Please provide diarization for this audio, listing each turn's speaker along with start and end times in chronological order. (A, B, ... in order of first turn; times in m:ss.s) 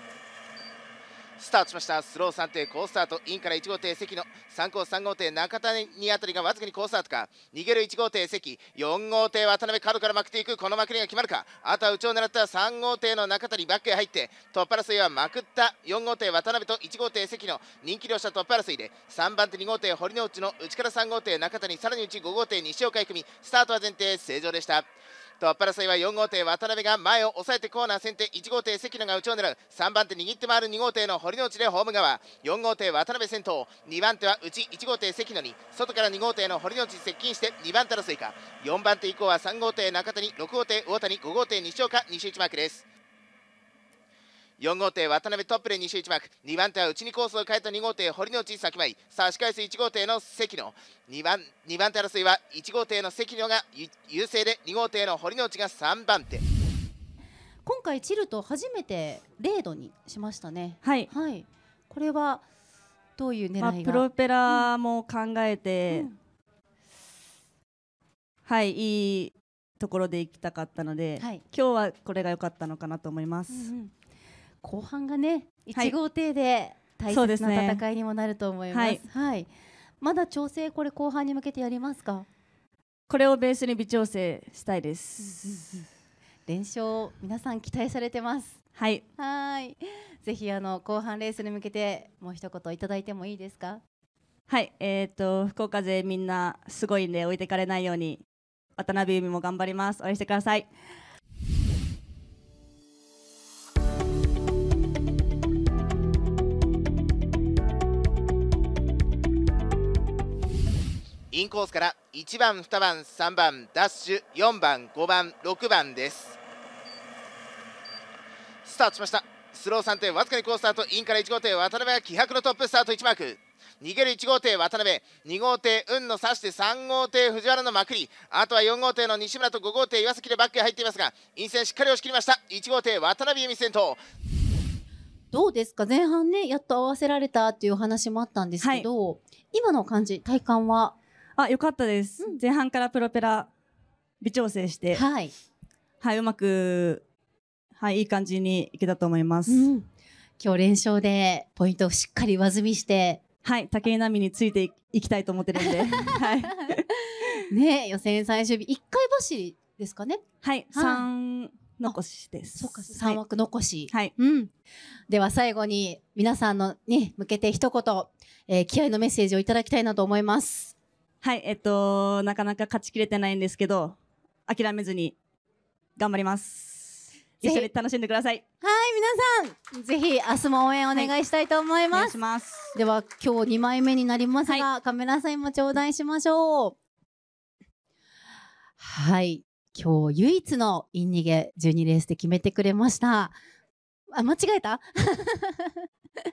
0:01.4-0:24.9 A
0:25.4-0:42.8 A
0:44.6-0:56.4 A
0:57.6-1:02.4 B
1:00.8-1:01.1 C
1:03.2-1:04.7 B
1:03.6-1:06.1 C
1:05.9-1:06.2 B
1:08.5-1:13.7 C
1:13.5-1:13.9 B
1:14.6-1:22.3 B
1:17.1-1:17.8 C
1:18.7-1:19.0 C
1:23.1-1:25.8 C
1:25.2-1:25.8 B
1:26.5-1:28.6 B
1:28.8-1:29.0 C
1:29.2-1:33.8 B
1:34.5-1:38.2 C
1:38.8-1:40.7 C
1:51.3-1:56.4 A
1:58.6-2:14.0 A
2:15.3-2:21.0 B
2:18.6-2:18.9 C
2:21.4-2:23.5 C
2:24.2-2:25.0 C
2:24.9-2:25.3 B
2:26.0-2:27.0 C
2:27.8-2:29.7 C
2:29.5-2:29.9 B
2:30.4-2:33.2 B
2:33.4-2:36.8 C
2:35.6-2:36.8 B
2:37.4-2:41.1 B
2:40.4-2:43.2 C
2:42.6-2:44.5 B
2:45.1-2:50.8 B
2:51.2-2:55.2 C
2:56.0-2:58.4 C
2:57.4-2:57.7 B
2:58.6-3:02.2 B
3:01.9-3:02.7 C
3:02.7-3:06.8 B
3:08.8-3:13.4 B
3:14.1-3:15.9 B